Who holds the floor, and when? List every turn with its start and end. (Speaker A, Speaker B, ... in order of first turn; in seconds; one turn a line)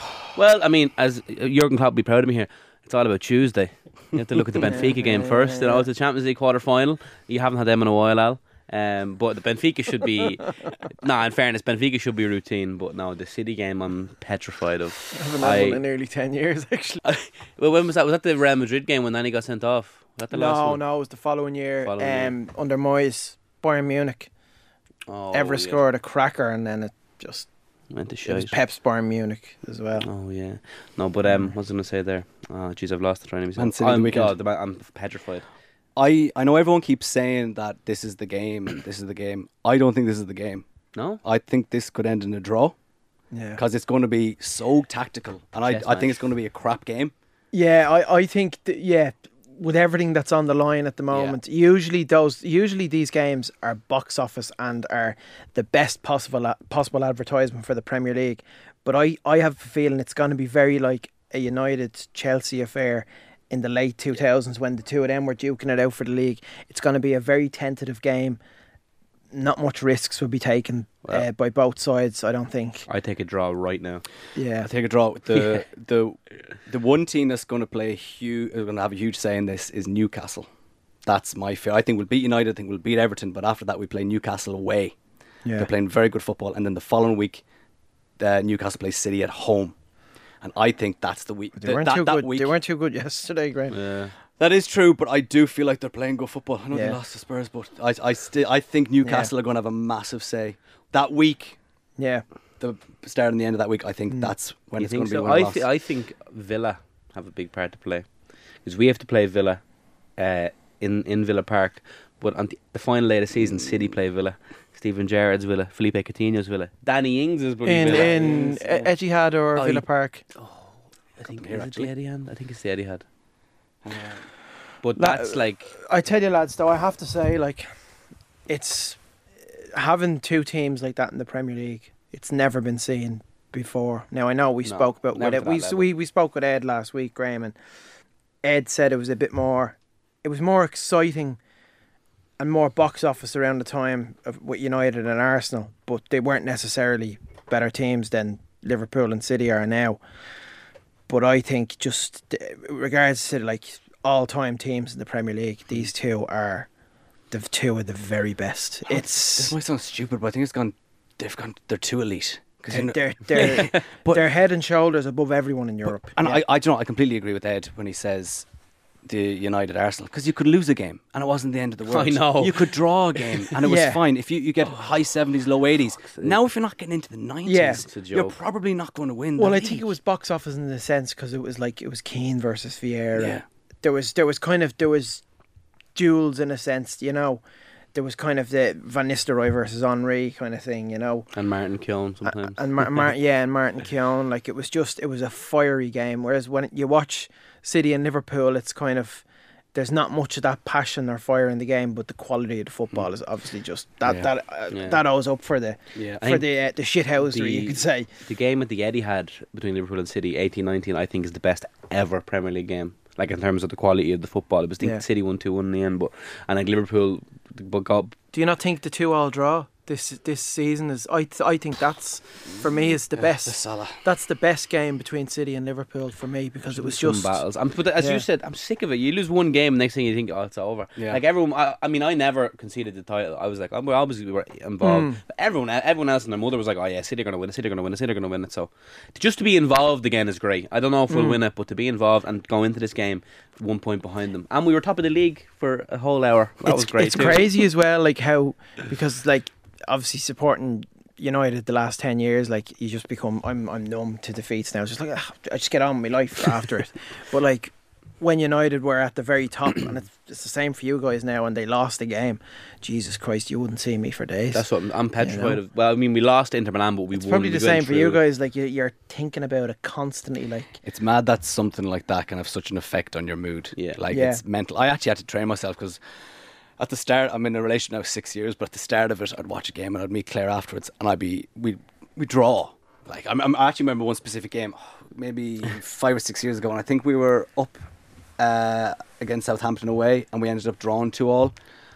Speaker A: 0.3-15.8
Speaker B: 4.6-5.8
Speaker B: 15.1-17.0
Speaker A: 17.0-20.9
Speaker B: 20.3-24.3
Speaker A: 21.8-22.3
Speaker A: 25.1-25.8
Speaker B: 25.3-27.5
Speaker A: 27.9-28.6
Speaker B: 28.2-30.1
Speaker A: 30.0-35.5
Speaker B: 31.3-31.5
Speaker C: 33.6-34.3
Speaker C: 36.0-40.6
Speaker A: 40.9-41.2
Speaker C: 41.2-42.8
Speaker B: 43.3-43.6
Speaker C: 43.5-47.1
Speaker A: 45.6-46.2
Speaker B: 47.5-68.4
Speaker A: 51.1-51.4
Speaker B: 69.3-72.9
Speaker A: 72.9-74.1
Speaker B: 74.3-74.7
Speaker C: 74.6-80.5
Speaker C: 81.0-85.0
Speaker C: 85.5-87.4
Speaker C: 88.2-89.8
Speaker C: 90.4-92.5
Speaker B: 91.6-93.8
Speaker A: 93.7-94.1
Speaker C: 94.4-101.6
Speaker B: 96.7-97.0
Speaker B: 99.0-99.3
Speaker B: 102.0-102.2
Speaker C: 102.6-105.7
Speaker A: 104.8-108.1
Speaker A: 108.6-109.6
Speaker A: 110.2-118.5
Speaker C: 113.3-113.9
Speaker B: 117.6-120.2
Speaker C: 117.8-118.9
Speaker A: 119.5-123.0
Speaker C: 121.3-121.9
Speaker C: 123.8-124.3
Speaker A: 124.8-125.7
Speaker B: 125.0-127.8
Speaker B: 128.5-137.5
Speaker A: 134.7-135.9
Speaker B: 138.4-141.4
Speaker B: 142.4-150.0
Speaker B: 151.1-156.7
Speaker B: 157.3-159.5
Speaker C: 158.9-164.2
Speaker B: 162.7-166.4
Speaker A: 163.3-163.8
Speaker C: 166.1-168.4
Speaker C: 169.0-179.9
Speaker A: 171.9-173.5
Speaker B: 173.6-174.0
Speaker A: 176.1-176.4
Speaker B: 177.4-177.8
Speaker A: 177.7-178.4
Speaker B: 179.4-185.2
Speaker C: 183.2-183.4
Speaker B: 185.9-187.4
Speaker B: 187.9-191.3
Speaker A: 191.3-193.0
Speaker B: 192.2-208.1
Speaker A: 204.7-205.0
Speaker A: 205.9-218.2
Speaker B: 218.3-227.4
Speaker C: 223.1-224.0
Speaker A: 226.7-247.5
Speaker B: 228.0-228.2
Speaker C: 231.0-231.2
Speaker B: 234.8-235.2
Speaker B: 241.1-241.4
Speaker B: 246.6-264.6
Speaker A: 264.5-268.2
Speaker B: 265.2-265.6
Speaker B: 267.1-270.7
Speaker C: 270.8-287.8
Speaker A: 273.8-274.0
Speaker B: 274.1-274.4
Speaker C: 288.4-291.5